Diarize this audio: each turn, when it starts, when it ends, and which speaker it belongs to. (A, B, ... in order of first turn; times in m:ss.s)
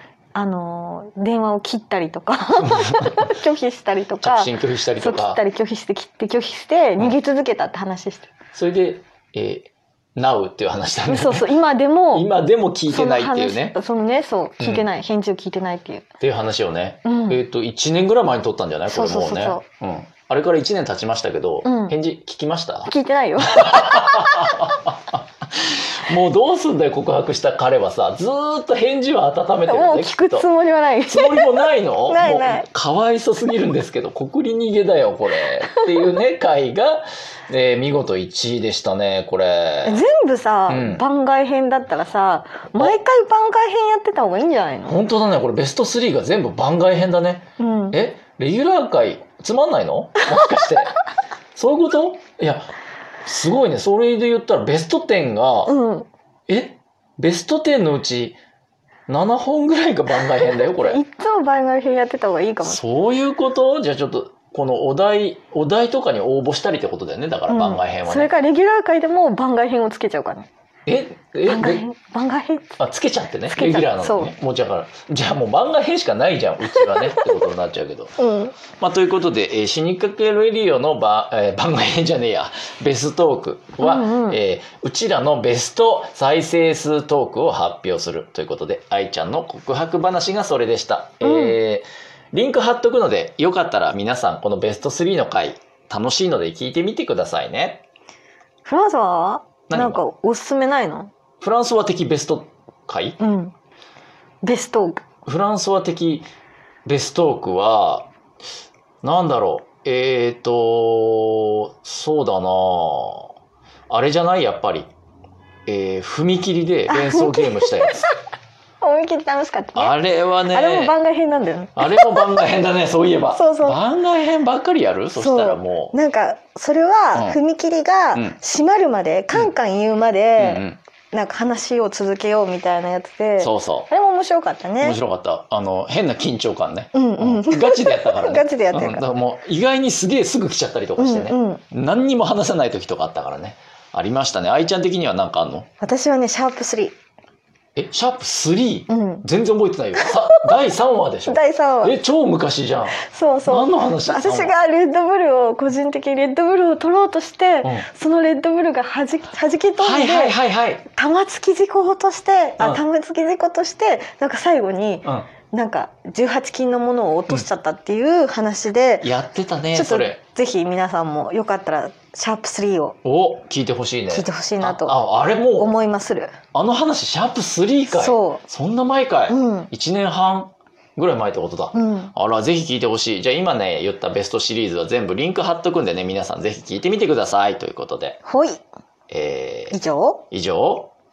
0:00.4-0:08.3 A
0:02.6-0:03.3 B
0:04.2-0:05.4 B
0:08.5-0:11.5 B
0:11.1-0:12.3 A
0:12.1-0:13.8 B
0:12.9-0:16.0 A
0:16.2-0:22.9 B
0:17.0-0:17.4 A
0:18.9-0:19.6 A
0:21.6-0:22.0 A
0:22.9-0:24.2 A
0:23.4-0:30.5 B
0:29.7-0:31.6 A
0:31.1-0:40.0 B
0:32.1-0:32.7 A
0:39.8-0:45.0 A
0:40.7-0:41.0 B
0:44.9-0:51.0 B
0:47.6-0:48.0 A
0:51.6-0:52.7 B
0:53.3-0:55.7 B
0:55.7-0:56.1 A
0:56.5-0:58.4 B
0:59.1-1:01.0 B
1:00.5-1:02.8 A
1:02.6-1:08.3 B
1:07.5-1:10.5 A
1:10.9-1:11.9 B
1:11.4-1:12.8 A
1:12.8-1:18.1 B
1:13.5-1:14.3 A
1:16.7-1:17.4 A
1:18.2-1:18.6 A
1:18.8-1:37.8 B
1:23.8-1:24.4 A
1:31.2-1:31.6 A
1:38.6-1:41.1 A
1:39.7-1:40.0 B
1:41.4-1:43.2 B
1:43.2-1:43.5 A
1:44.4-1:45.0 A
1:45.2-1:46.3 B
1:46.9-1:48.1 B
1:49.0-1:53.3 B
1:53.9-1:54.9 B
1:55.7-1:58.1 B
1:56.9-1:57.9 A
1:58.8-2:00.0 A
1:59.8-2:00.9 B
2:00.5-2:02.4 A
2:01.8-2:06.0 B
2:03.3-2:03.8 A
2:05.2-2:15.0 A
2:10.4-2:10.8 B
2:13.4-2:13.9 B
2:14.8-2:25.7 B
2:16.9-2:19.0 A
2:21.0-2:21.6 A
2:25.8-2:27.0 A
2:27.8-2:34.5 B
2:28.9-2:29.2 A
2:30.0-2:30.4 A
2:31.3-2:32.0 A
2:33.0-2:40.4 A
2:39.8-2:40.8 B
2:40.9-2:49.1 A
2:49.0-2:50.2 B
2:49.7-2:53.0 A
2:53.0-2:55.7 B
2:54.1-2:55.0 A
2:55.6-2:56.3 A
2:56.5-3:08.2 B
2:57.9-2:58.4 A
2:59.3-2:59.7 A
3:01.7-3:02.1 A
3:08.2-3:08.6 A
3:09.1-3:09.8 B
3:09.7-3:10.2 A
3:10.3-3:10.9 B